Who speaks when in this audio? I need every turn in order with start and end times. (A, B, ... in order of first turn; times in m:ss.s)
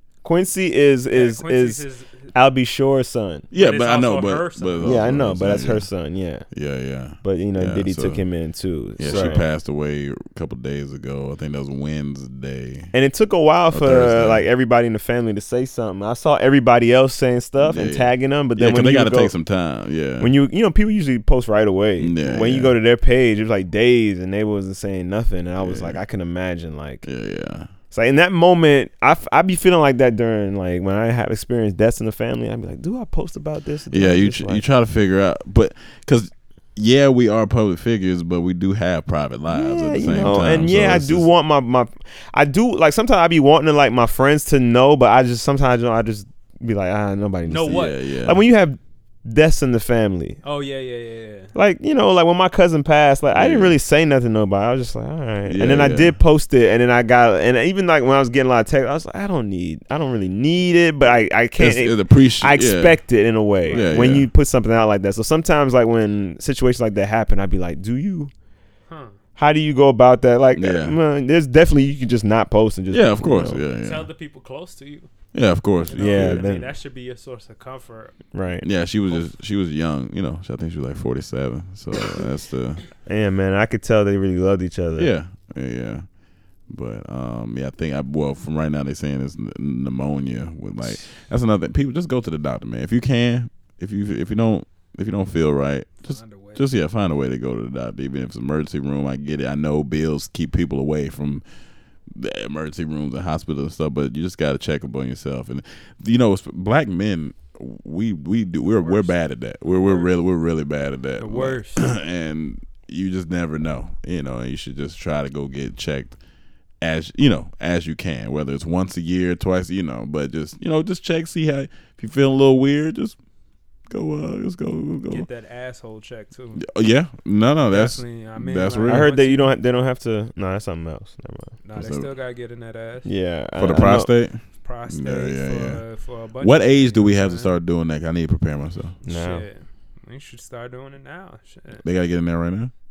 0:00.2-0:03.5 A
0:01.1-0:02.3 B
0:03.5-0:05.9 C
0:03.5-0:05.1 B
0:04.8-0:06.4 A
0:06.5-0:08.2 C
0:07.2-0:09.4 A
0:09.0-0:12.9 C
0:09.1-0:09.4 B
0:12.9-0:19.3 A
0:13.7-0:14.4 C
0:17.6-0:20.3 C
0:20.2-0:27.0 A
0:22.0-0:22.7 C
0:25.6-0:26.0 C
0:27.0-0:27.7 C
0:27.9-0:34.6 A
0:33.9-0:41.2 C
0:39.5-0:50.4 A
0:47.5-0:48.0 B
0:47.7-0:48.4 C
0:50.4-0:51.5 B
0:51.5-1:08.3 A
0:53.3-0:53.8 C
0:55.4-0:56.2 C
1:01.6-1:03.0 C
1:03.6-1:04.2 B
1:03.7-1:04.3 C
1:08.9-1:09.1 B
1:09.4-1:13.6 A
1:10.5-1:11.0 C
1:12.9-1:14.1 C
1:13.8-1:15.1 B
1:15.3-1:16.4 C
1:15.8-1:18.2 B
1:16.0-1:16.7 A
1:18.3-1:18.6 A
1:18.6-1:22.8 C
1:23.0-1:25.1 A
1:25.0-1:26.0 C
1:26.7-1:41.4 C
1:36.0-1:36.7 B
1:42.1-1:56.1 C
1:48.8-1:49.1 B
1:49.8-1:50.1 B
1:51.2-1:51.9 B
1:56.8-2:03.2 C
2:03.9-2:05.2 C
2:05.1-2:06.6 B
2:06.6-2:09.1 C
2:07.7-2:09.5 B
2:08.9-2:11.6 A
2:11.6-2:13.1 B
2:11.8-2:12.1 C
2:13.0-2:14.1 A
2:13.6-2:15.8 C
2:14.6-2:17.5 B
2:16.4-2:19.0 C
2:19.0-2:19.4 A
2:19.0-2:21.8 B
2:21.8-2:22.7 C